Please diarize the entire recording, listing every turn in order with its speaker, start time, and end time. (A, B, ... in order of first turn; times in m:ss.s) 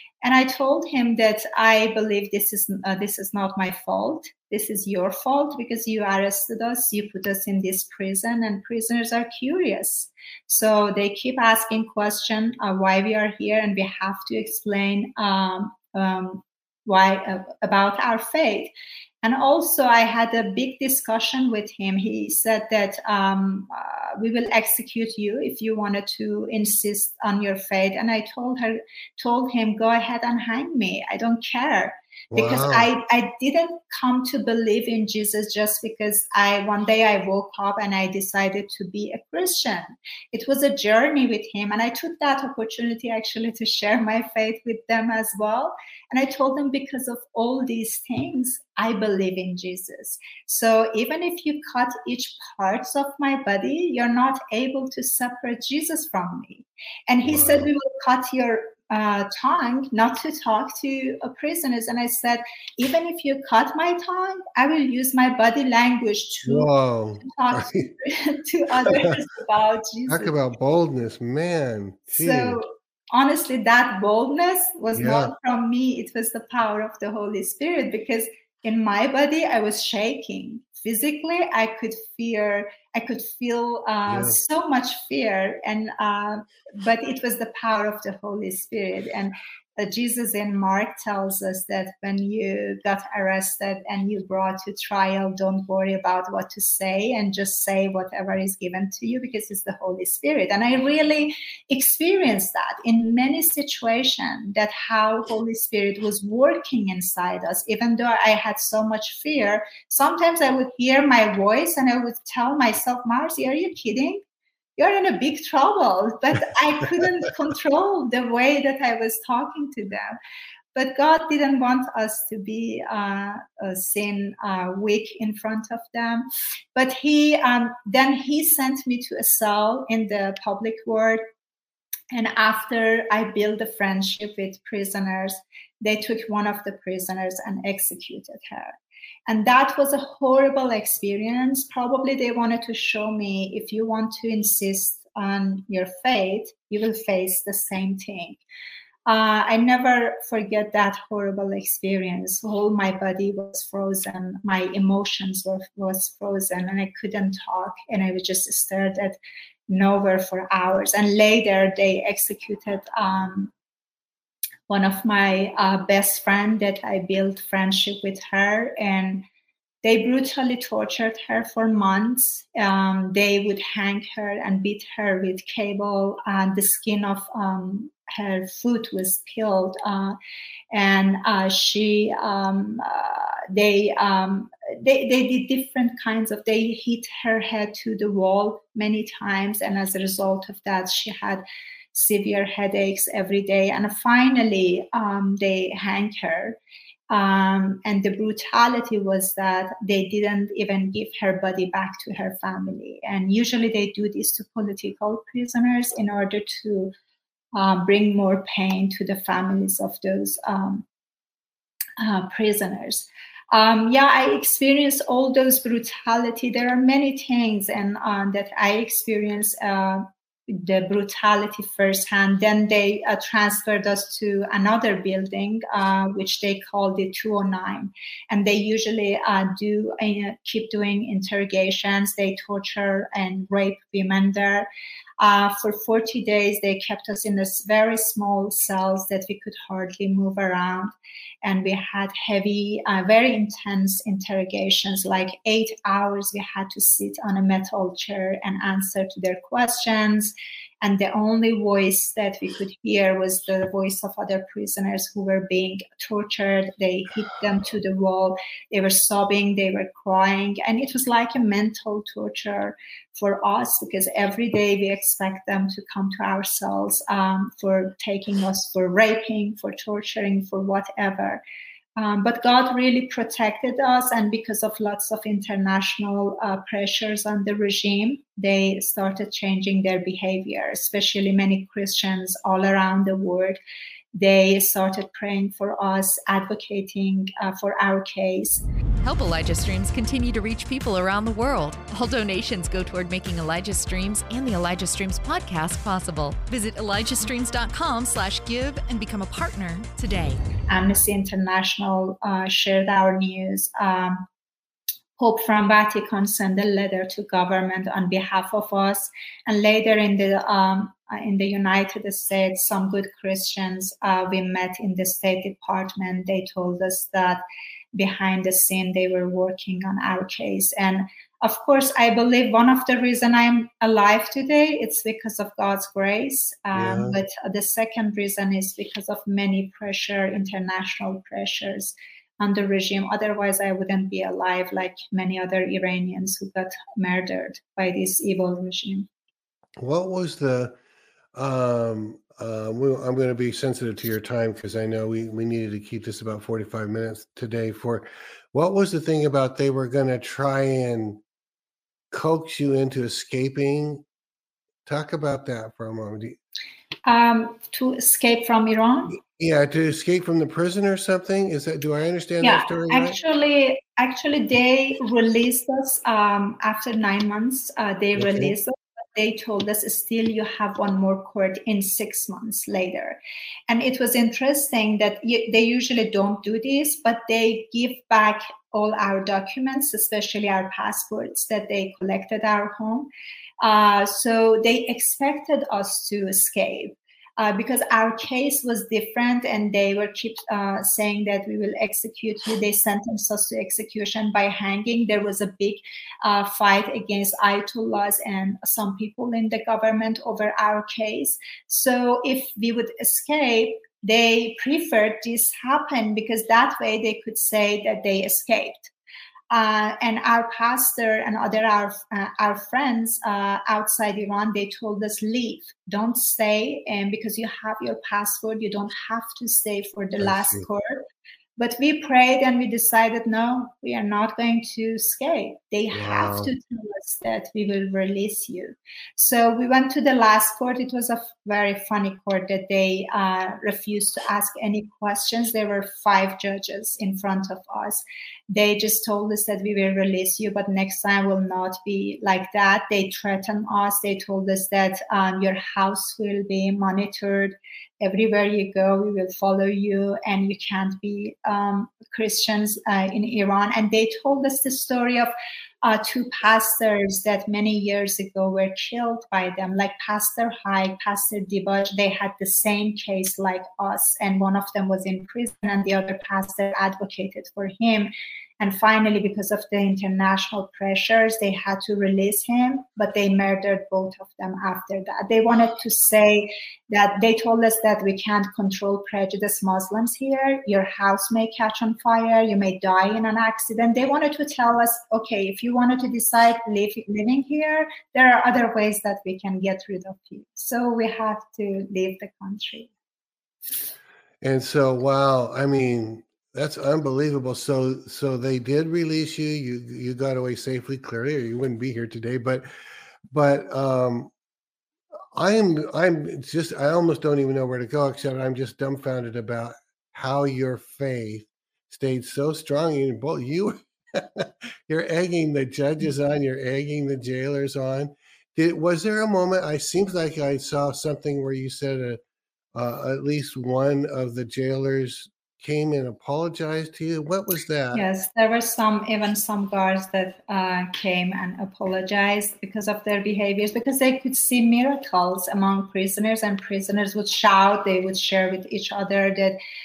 0:00.2-0:18.7 A
0:19.2-1:06.7 A
0:32.3-0:32.9 B
0:57.3-0:57.7 B
1:06.5-1:07.9 B
1:07.2-1:10.4 A
1:08.8-1:09.1 B
1:10.1-1:12.6 B
1:12.1-1:54.2 A
1:15.0-1:15.3 B
1:24.1-1:24.4 B
1:54.8-2:00.2 A
2:00.8-2:11.2 A
2:12.1-2:18.7 A
2:19.3-2:28.4 A
2:29.1-2:39.2 A
2:39.7-2:43.5 A
2:44.7-2:49.3 A
2:49.8-3:00.2 A
3:00.7-3:16.6 A
3:17.1-3:26.9 A
3:27.6-3:30.9 A
3:32.0-3:54.7 A
3:55.2-4:00.9 A
4:01.4-4:31.4 A
4:32.0-4:43.6 A
4:44.2-4:48.6 A
4:49.0-5:00.4 C
5:00.7-5:04.2 A
5:05.2-5:17.4 A
5:18.0-5:39.1 A
5:26.7-5:27.2 B
5:39.8-5:40.8 B
5:41.4-5:51.2 B
5:52.1-5:54.0 B
5:54.9-5:56.4 B
5:57.0-5:59.2 A
5:59.1-6:03.2 B
6:02.4-6:23.1 A
6:08.2-6:08.5 B
6:23.6-6:48.9 A
6:49.5-7:01.0 A
7:00.2-7:00.6 B
7:01.6-7:35.3 A
7:05.9-7:06.5 B
7:35.8-8:12.9 A
8:14.4-8:22.7 B
8:23.3-8:24.3 B
8:25.3-8:42.2 B
8:42.7-8:48.0 B
8:47.9-8:59.6 A